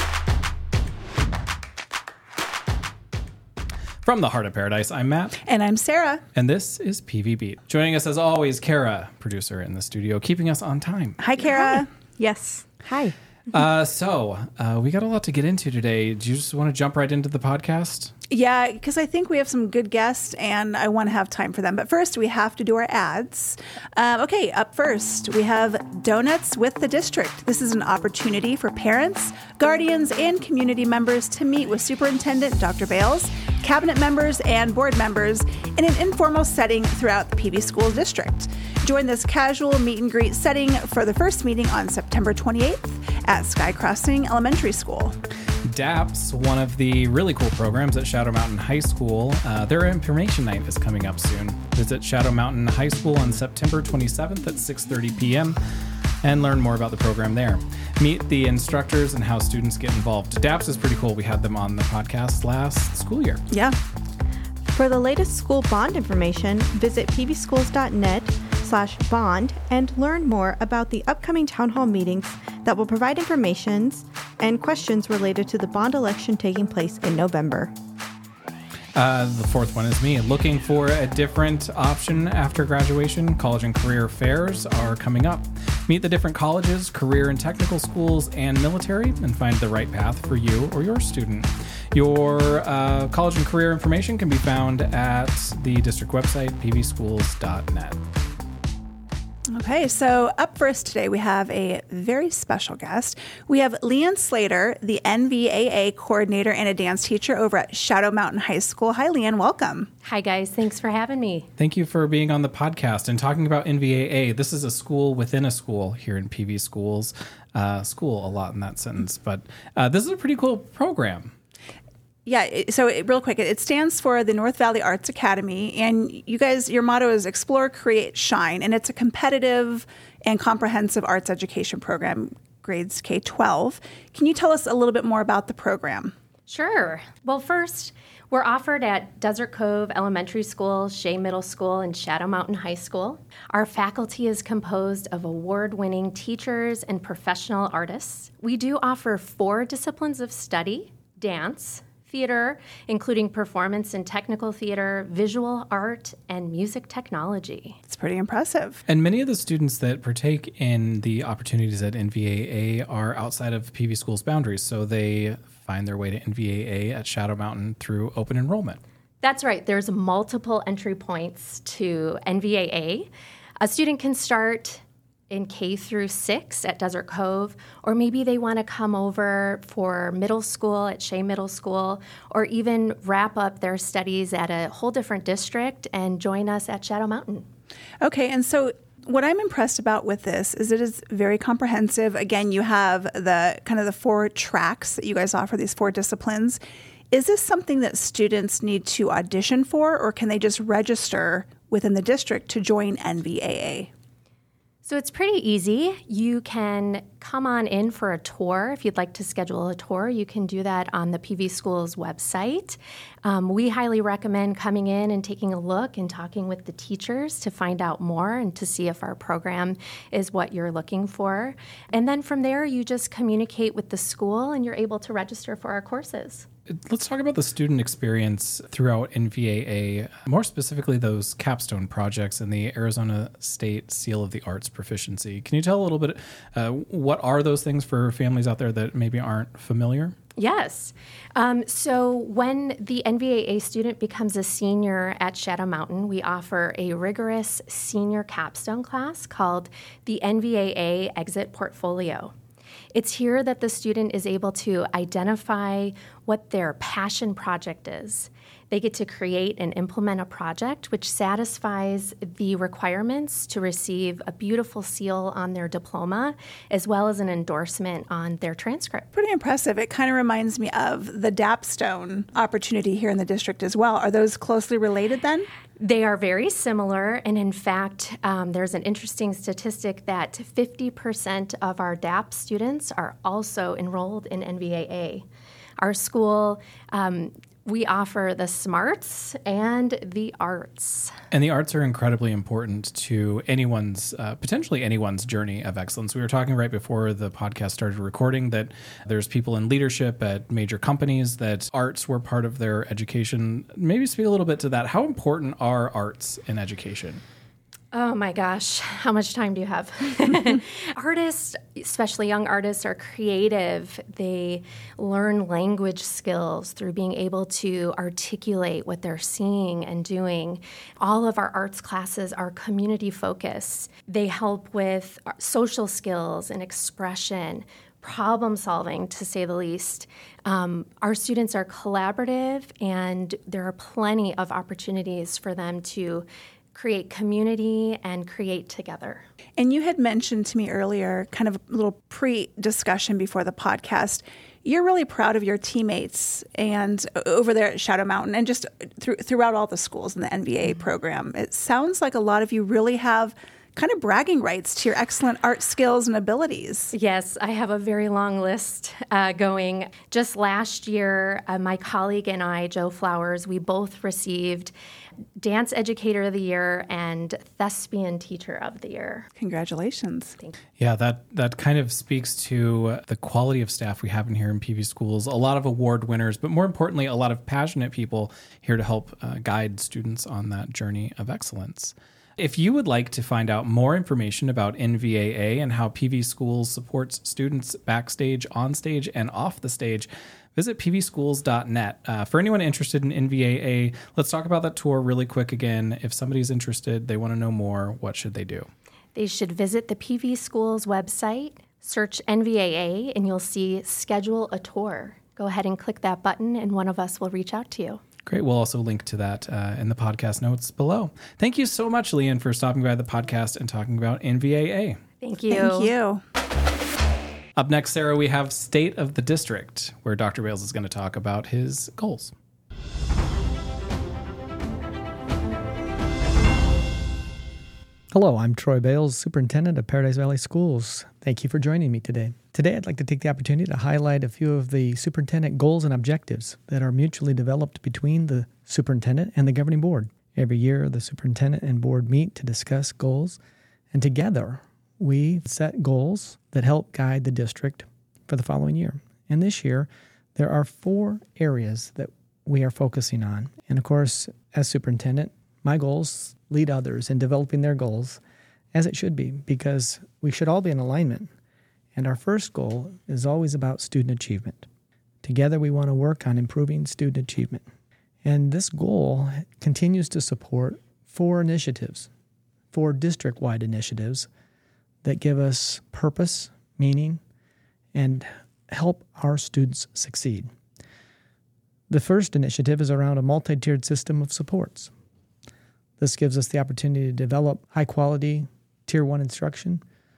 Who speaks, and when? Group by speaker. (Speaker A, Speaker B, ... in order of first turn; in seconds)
Speaker A: 4.0-5.4, 6.3-11.2, 13.5-18.1, 45.6-55.6, 56.2-63.4, 79.0-98.0, 111.6-121.3, 158.9-168.8, 226.7-240.2, 291.3-307.2, 370.8-398.7, 408.3-415.0, 417.6-422.3
Speaker B: 5.4-6.2, 11.2-13.1, 18.3-45.2, 63.5-63.8, 99.5-109.9, 122.3-136.1, 157.9-158.8, 188.0-196.6, 197.1-203.9, 269.1-275.5, 339.6-356.9, 369.4-370.4, 415.5-416.2
Speaker C: 64.6-77.7
Speaker D: 110.0-111.5, 136.5-157.8, 169.2-187.5, 204.8-226.5, 240.4-252.3, 252.9-269.1, 275.8-285.3, 285.8-291.1, 307.9-339.2, 356.9-364.7, 365.4-369.3, 399.1-408.0, 415.2-415.9
Speaker E: 428.1-443.4, 443.9-458.2, 458.7-461.3, 461.9-464.7, 465.2-467.6, 468.2-472.1, 472.7-474.3, 475.0-477.2, 477.9-480.5, 481.9-484.9, 486.0-489.8